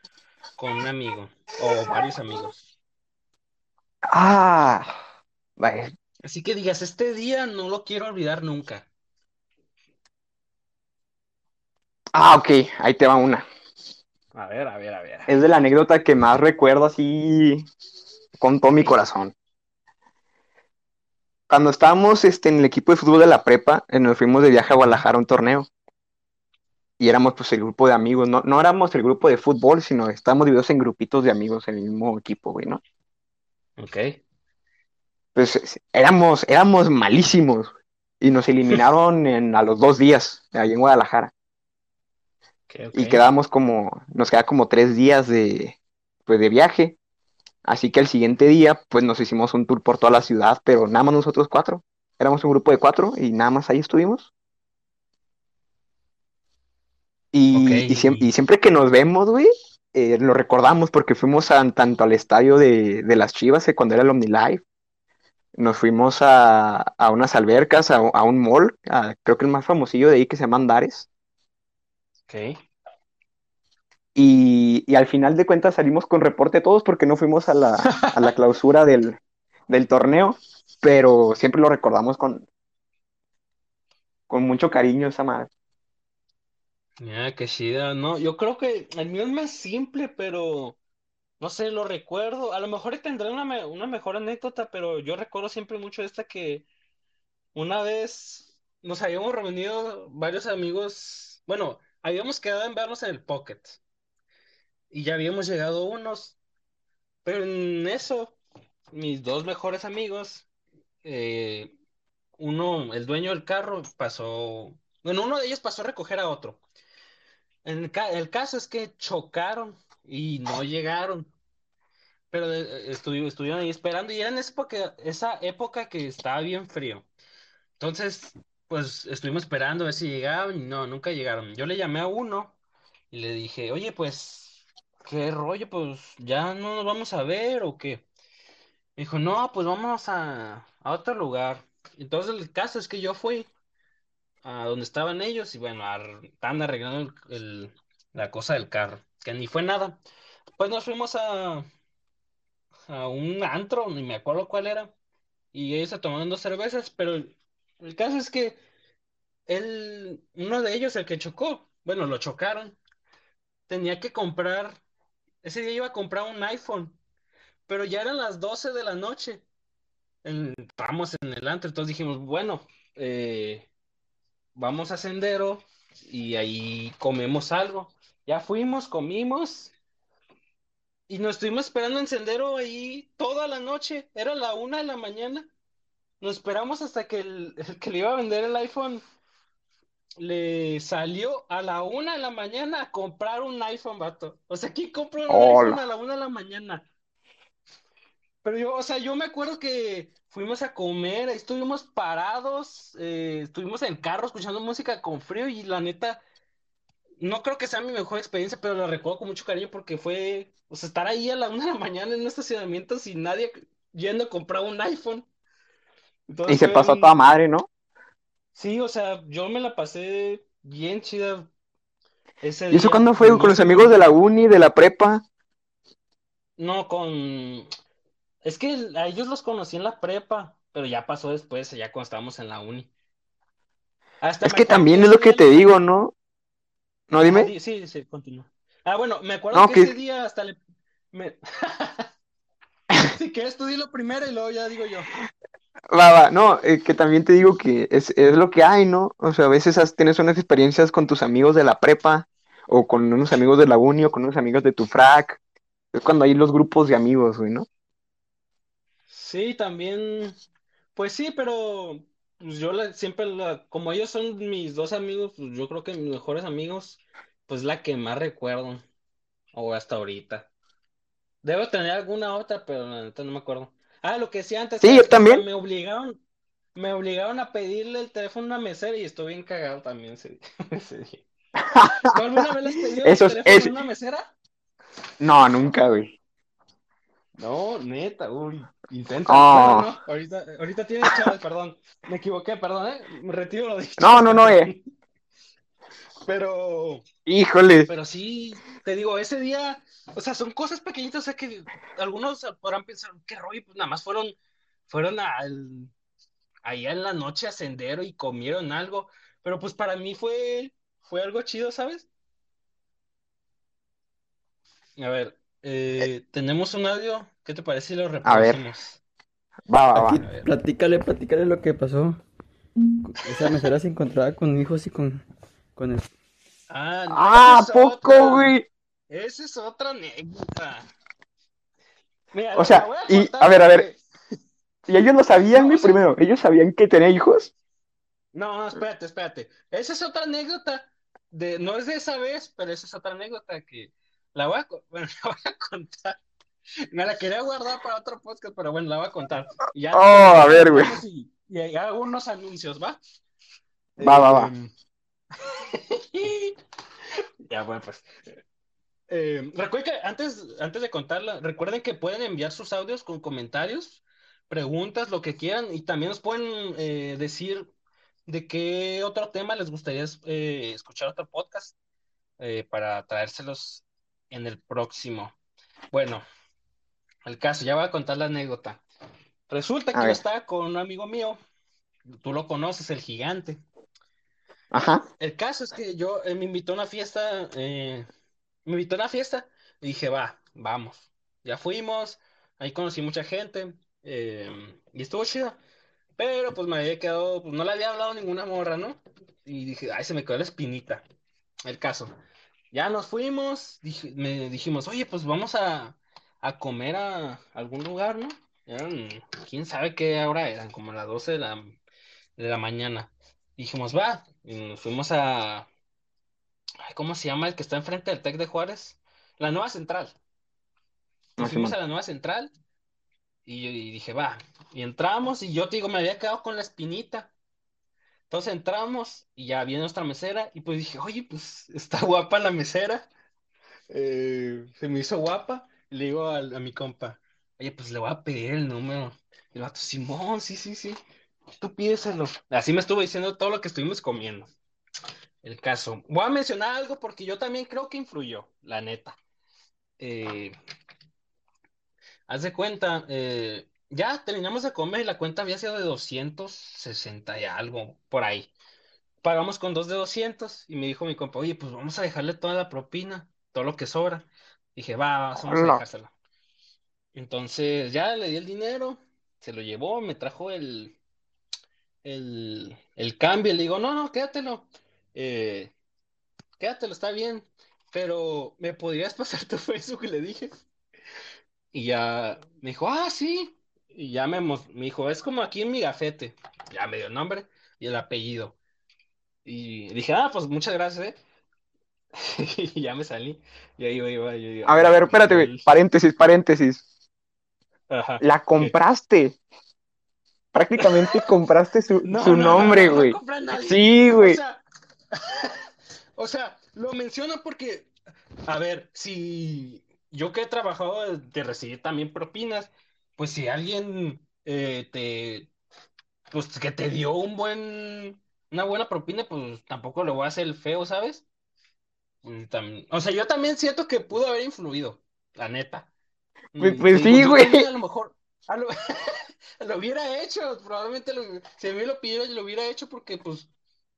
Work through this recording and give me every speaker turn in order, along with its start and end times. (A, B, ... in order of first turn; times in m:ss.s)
0:00.6-0:02.6 A
0:04.1-0:05.0 B
0:05.6-0:06.0 B
0:06.2-0:08.9 A
0:12.1-0:13.4 B
0:14.3-0:15.4 A
0:15.3-0:17.7 B
0:18.4-0:19.3 B
0:21.5-0:25.7 B
0:27.0-0:32.8 B
0:33.8-0:34.2 A
0:35.4-0:41.3 B
0:42.7-0:43.2 A
0:42.9-0:45.8 B
0:46.3-0:47.0 B
0:47.6-0:54.3 B
0:57.3-1:04.6 B
0:57.5-0:58.3 A
1:05.6-1:11.1 B
1:12.3-1:12.6 A
1:14.2-1:22.5 B
1:17.9-1:18.3 A
1:24.3-1:25.5 B
1:27.0-1:30.8 A
1:31.4-1:36.7 A
1:37.5-1:43.8 A
1:44.9-1:46.4 A
1:47.2-1:48.4 A
1:48.9-1:50.5 A
1:51.0-1:51.8 A
1:52.4-1:56.6 A
1:57.6-2:01.3 A
2:02.3-2:07.1 A
2:07.8-2:12.6 A
2:13.1-2:18.0 A
2:19.0-2:23.5 A
2:24.4-2:30.0 A
2:30.6-2:31.7 A
2:32.9-2:34.9 A
2:35.5-2:38.6 A
2:39.5-2:42.8 A
2:43.7-2:44.8 A
2:45.4-2:47.0 A
2:47.7-2:49.4 A
2:50.2-2:53.7 A
2:54.6-2:59.7 A
3:01.1-3:05.5 A
3:06.2-3:09.0 A
3:10.2-3:16.9 A
3:15.3-3:15.8 B
3:18.4-3:26.2 A
3:27.2-3:35.3 A
3:36.3-3:37.1 A
3:36.5-3:37.7 B
3:38.6-3:41.5 A
3:42.4-3:44.1 A
3:42.7-3:45.2 B
3:46.6-3:47.7 A
3:48.4-3:52.9 A
3:54.2-3:55.7 A
3:54.4-3:56.1 B
3:57.1-3:57.5 B
3:57.2-4:00.6 A
3:59.5-4:00.0 B
4:01.1-4:02.1 A
4:03.0-4:05.1 A
4:05.9-4:15.4 B
4:15.9-4:17.7 B
4:19.1-4:20.3 A
4:21.0-4:28.8 A
4:29.5-4:30.5 A
4:31.4-4:36.2 A
4:34.8-4:35.4 B
4:36.8-4:41.2 A
4:41.6-4:42.2 B
4:42.1-4:44.3 A
4:43.0-4:43.8 B
4:45.2-4:46.2 B
4:47.4-4:54.8 A
4:49.3-4:49.9 B
4:54.0-4:54.7 B
4:56.3-4:57.0 A
4:57.3-4:57.9 B
4:57.9-5:04.4 A
5:04.9-5:05.9 A
5:06.6-5:12.1 A
5:15.0-5:19.0 A
5:18.2-5:18.6 B
5:19.7-5:20.2 B
5:20.0-5:20.5 A
5:20.0-5:22.2 C
5:23.1-5:25.2 C
5:25.8-5:26.1 C
5:26.7-5:28.6 A
5:27.1-5:28.7 B
5:29.1-5:30.9 A
5:32.3-5:34.0 A
5:32.6-5:33.9 B
5:34.9-5:37.5 B
5:35.6-5:36.0 A
5:38.3-5:46.2 A
5:46.9-5:53.0 A
5:49.9-5:51.0 B
5:54.0-5:54.7 A
5:54.0-5:54.5 B
5:55.4-5:56.6 A
5:57.5-5:58.1 A
5:59.1-6:07.7 A
6:08.3-6:11.8 A
6:12.4-6:15.4 A
6:15.9-6:16.2 A
6:17.3-6:18.8 A
6:19.5-6:21.4 A
6:19.9-6:20.2 B
6:22.1-6:23.6 A
6:24.7-6:25.1 B
6:25.2-6:28.1 A
6:28.7-6:35.6 A
6:36.2-6:41.0 A
6:41.7-6:42.1 A
6:42.7-6:51.8 A
6:52.4-6:55.7 A
6:56.8-7:00.2 A
7:01.4-7:01.8 B
7:01.4-7:02.5 A
7:03.5-7:07.3 A
7:08.3-7:13.1 A
7:13.9-7:21.0 A
7:21.6-7:24.5 A
7:25.4-7:29.2 A
7:30.0-7:30.6 A
7:32.3-7:38.5 A
7:39.2-7:46.1 A
7:45.4-7:45.8 B
7:47.2-7:51.0 A
7:52.0-7:55.7 A
7:56.6-8:00.5 A
8:01.7-8:08.6 A
8:09.4-8:11.2 A
8:12.2-8:15.7 A
8:14.6-8:16.8 B
8:17.9-8:18.8 A
8:18.2-8:19.4 B
8:20.5-8:24.4 B
8:22.0-8:24.6 A
8:25.2-8:25.6 A
8:26.2-8:27.9 A
8:28.5-8:35.5 A
8:36.3-8:41.2 A
8:42.2-8:45.9 A
8:46.5-8:53.5 A
8:46.6-8:47.7 B